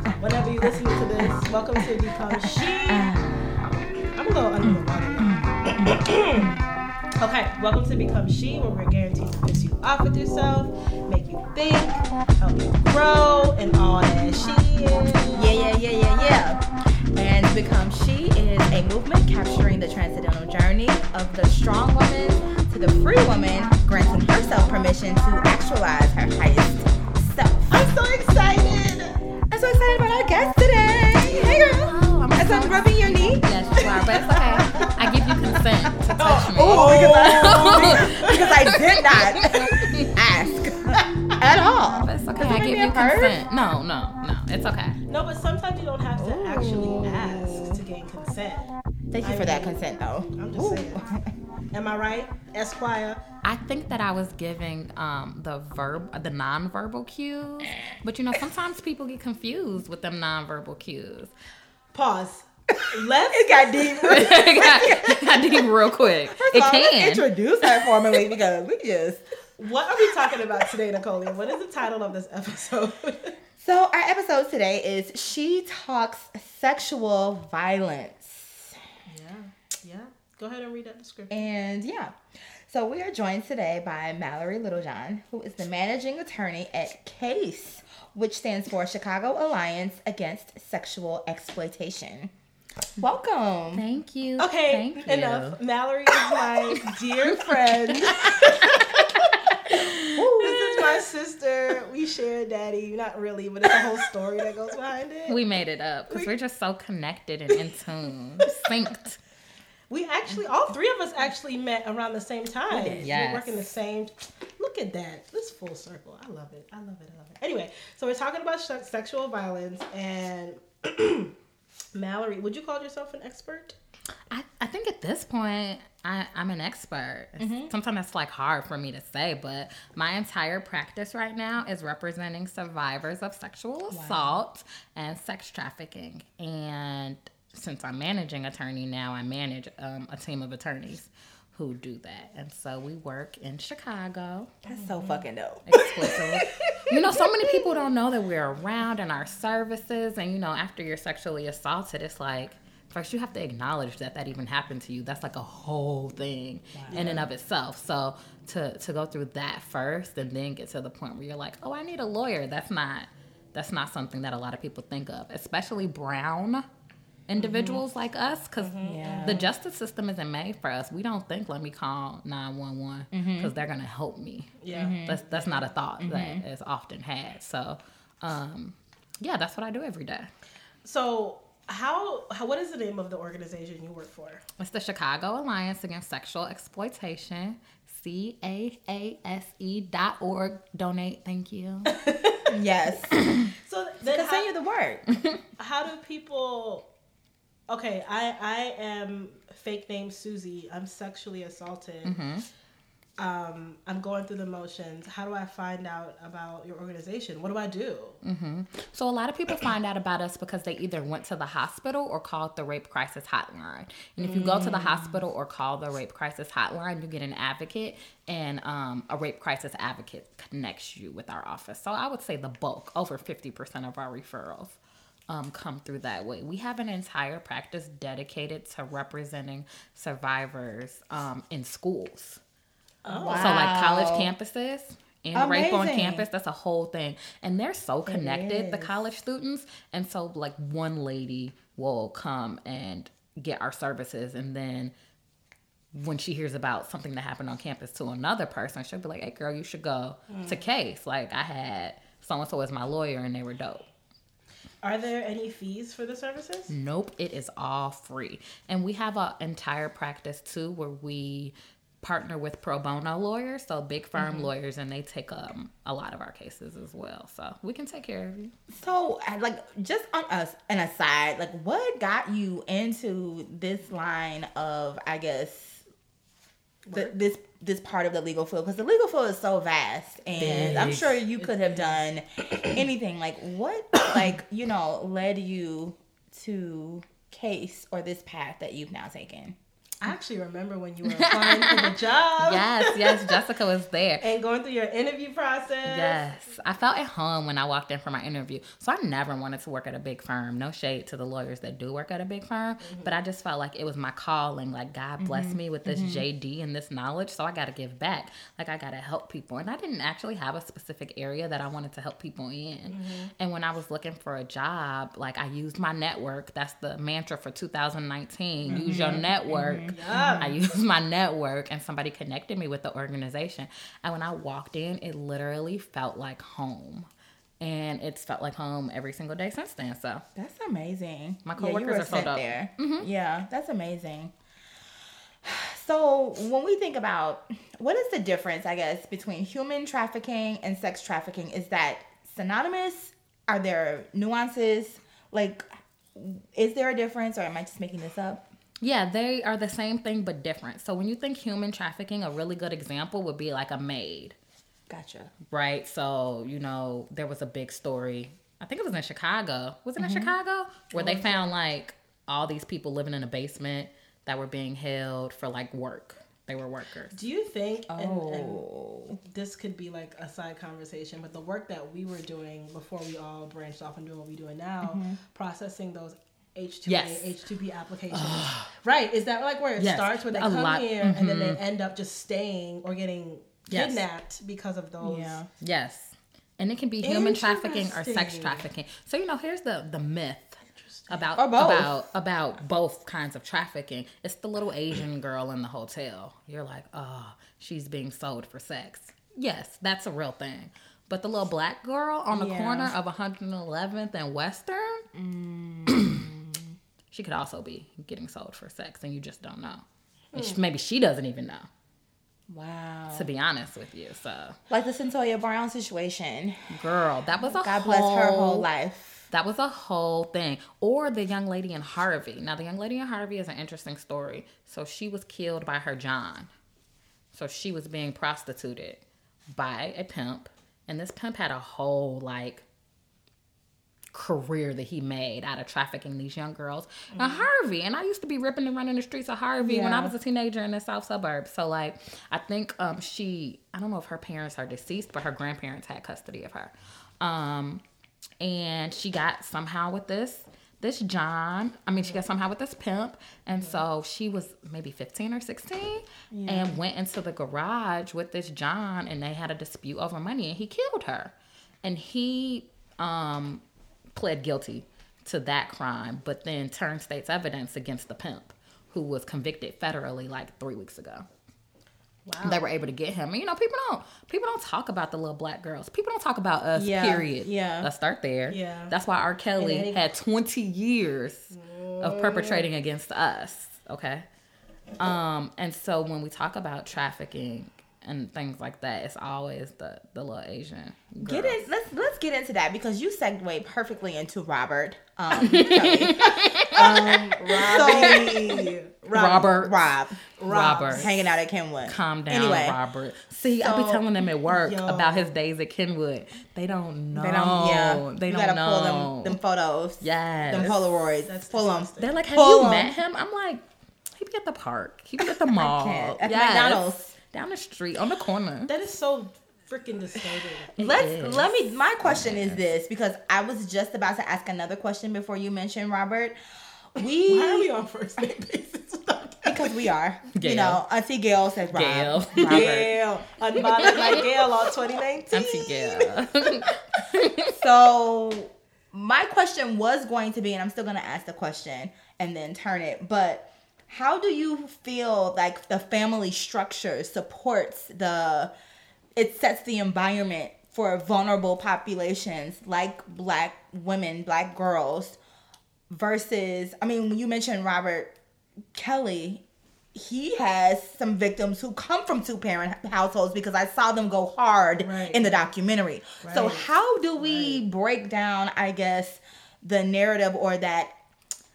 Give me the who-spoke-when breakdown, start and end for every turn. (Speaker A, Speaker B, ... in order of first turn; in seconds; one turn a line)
Speaker A: 0.2-3.1
Speaker B: 2.5-3.7
Speaker A: 4.2-6.5
Speaker B: 5.3-6.5
Speaker A: 7.2-15.5
Speaker B: 15.3-27.9
Speaker A: 27.7-29.2
Speaker B: 29.5-34.6
Speaker C: 31.1-40.2
Speaker A: 33.8-35.0
Speaker A: 36.1-38.5
Speaker B: 36.1-43.5
Speaker A: 39.4-39.9
Speaker C: 41.8-45.0
Speaker A: 45.1-48.7
Speaker B: 46.2-47.8
Speaker B: 49.1-51.3
Speaker A: 49.2-49.8
Speaker A: 50.4-51.1
Speaker A: 51.7-53.2
Speaker C: 53.4-61.3
Speaker A: 61.9-64.2
Speaker B: 63.3-65.7
Speaker C: 64.1-68.2
Speaker B: 66.3-69.2
Speaker A: 69.6-73.4
Speaker B: 73.6-78.8
Speaker A: 79.1-81.4
Speaker B: 81.3-82.2
Speaker B: 82.7-92.3
Speaker B: 93.0-93.8
Speaker C: 93.7-95.6
Speaker A: 94.4-99.9
Speaker B: 97.9-98.2
Speaker C: 98.2-98.5
Speaker C: 99.7-100.6
Speaker B: 100.2-101.0
Speaker A: 100.4-105.4
Speaker C: 105.3-109.2
Speaker A: 109.9-121.3
Speaker B: 112.7-113.1
Speaker C: 113.0-113.7
Speaker A: 121.9-123.8
Speaker C: 124.3-144.5
Speaker B: 127.4-127.7
Speaker B: 133.9-134.4
Speaker B: 144.6-146.2
Speaker A: 144.7-145.2
Speaker C: 145.7-166.7
Speaker A: 145.7-146.8
Speaker B: 146.9-147.9
Speaker B: 156.7-157.3
Speaker A: 156.9-157.3
Speaker C: 167.3-180.3
Speaker B: 167.4-167.8
Speaker A: 168.6-169.5
Speaker B: 168.8-169.5
Speaker B: 173.1-173.5
Speaker A: 174.6-175.7
Speaker B: 174.7-175.2
Speaker B: 176.0-176.4
Speaker A: 180.8-184.4
Speaker C: 184.6-191.9
Speaker A: 191.9-192.5
Speaker B: 192.5-193.2
Speaker C: 193.2-193.5
Speaker A: 193.6-194.5
Speaker B: 194.1-195.1
Speaker A: 195.6-196.9
Speaker A: 197.7-202.2
Speaker C: 202.1-202.4
Speaker A: 203.2-208.2
Speaker C: 208.2-224.8
Speaker A: 214.2-215.0
Speaker B: 214.4-215.2
Speaker C: 225.3-232.4
Speaker A: 233.0-233.7
Speaker B: 233.1-234.3
Speaker C: 233.3-244.9
Speaker B: 235.3-236.3
Speaker B: 238.1-239.1
Speaker C: 245.9-253.8
Speaker A: 250.3-250.7
Speaker A: 254.8-256.7
Speaker C: 256.7-268.5
Speaker B: 264.2-264.5
Speaker B: 268.7-275.8
Speaker A: 276.9-277.2
Speaker B: 276.9-289.6
Speaker C: 280.4-281.2
Speaker A: 280.4-282.0
Speaker A: 290.0-293.3
Speaker C: 291.1-294.2
Speaker A: 294.2-296.3
Speaker C: 295.9-327.1
Speaker A: 302.8-303.2
Speaker B: 305.2-306.3
Speaker A: 312.9-313.3
Speaker A: 318.7-319.2
Speaker B: 318.7-320.5
Speaker A: 319.9-320.5
Speaker C: 327.6-330.2
Speaker B: 330.4-334.3
Speaker C: 331.4-333.1
Speaker B: 335.4-348.4
Speaker C: 348.8-354.4
Speaker B: 354.9-355.3
Speaker C: 355.5-367.1
Speaker B: 360.0-360.3
Speaker A: 361.0-361.4
Speaker A: 367.1-368.6
Speaker B: 367.9-369.2
Speaker A: 369.2-385.4
Speaker B: 374.8-375.2
Speaker C: 376.9-377.3
Speaker C: 378.1-378.7
Speaker C: 379.8-381.6
Speaker C: 383.7-384.0
Speaker B: 385.0-385.5
Speaker C: 385.6-405.1
Speaker A: 387.1-388.6
Speaker B: 387.1-387.4
Speaker A: 390.8-391.3
Speaker B: 391.4-391.9
Speaker B: 402.3-402.9
Speaker B: 405.1-406.7
Speaker C: 405.9-406.3
Speaker C: 407.1-411.7
Speaker A: 410.3-410.6
Speaker B: 412.5-413.3
Speaker C: 413.1-414.6
Speaker B: 414.7-416.8
Speaker C: 416.7-418.7
Speaker B: 417.6-419.3
Speaker C: 419.3-426.5
Speaker C: 427.3-432.6
Speaker C: 434.1-447.8
Speaker A: 437.1-437.5
Speaker B: 439.6-440.1
Speaker C: 448.4-463.6
Speaker B: 456.3-456.8
Speaker C: 464.1-471.3
Speaker A: 472.3-472.7
Speaker C: 472.4-484.2
Speaker B: 476.8-477.9
Speaker A: 478.5-478.9
Speaker A: 479.6-480.1
Speaker A: 481.5-482.7
Speaker C: 485.0-491.6
Speaker B: 491.2-498.7
Speaker C: 495.4-498.4
Speaker A: 495.4-496.2
Speaker A: 497.3-499.6
Speaker C: 499.1-499.9
Speaker B: 499.5-500.2
Speaker A: 500.4-501.1
Speaker C: 500.4-501.1
Speaker B: 500.9-502.8
Speaker C: 501.9-509.4
Speaker B: 503.5-504.1
Speaker A: 504.4-505.3
Speaker B: 507.1-513.0
Speaker C: 510.0-510.8
Speaker A: 510.5-512.2
Speaker C: 512.0-513.6
Speaker C: 514.1-518.7
Speaker B: 515.5-517.1
Speaker A: 518.7-520.8
Speaker C: 520.8-522.6
Speaker B: 520.8-526.4
Speaker B: 526.9-527.7
Speaker A: 527.2-529.8
Speaker B: 529.5-532.9
Speaker C: 530.3-530.8
Speaker C: 531.7-532.9
Speaker A: 532.4-536.7
Speaker B: 533.6-534.3
Speaker C: 533.6-534.2
Speaker C: 535.3-537.6
Speaker B: 537.5-548.5
Speaker B: 549.2-555.2
Speaker B: 555.9-558.1
Speaker B: 558.7-559.4
Speaker B: 559.9-570.9
Speaker A: 564.8-565.5
Speaker A: 566.2-567.6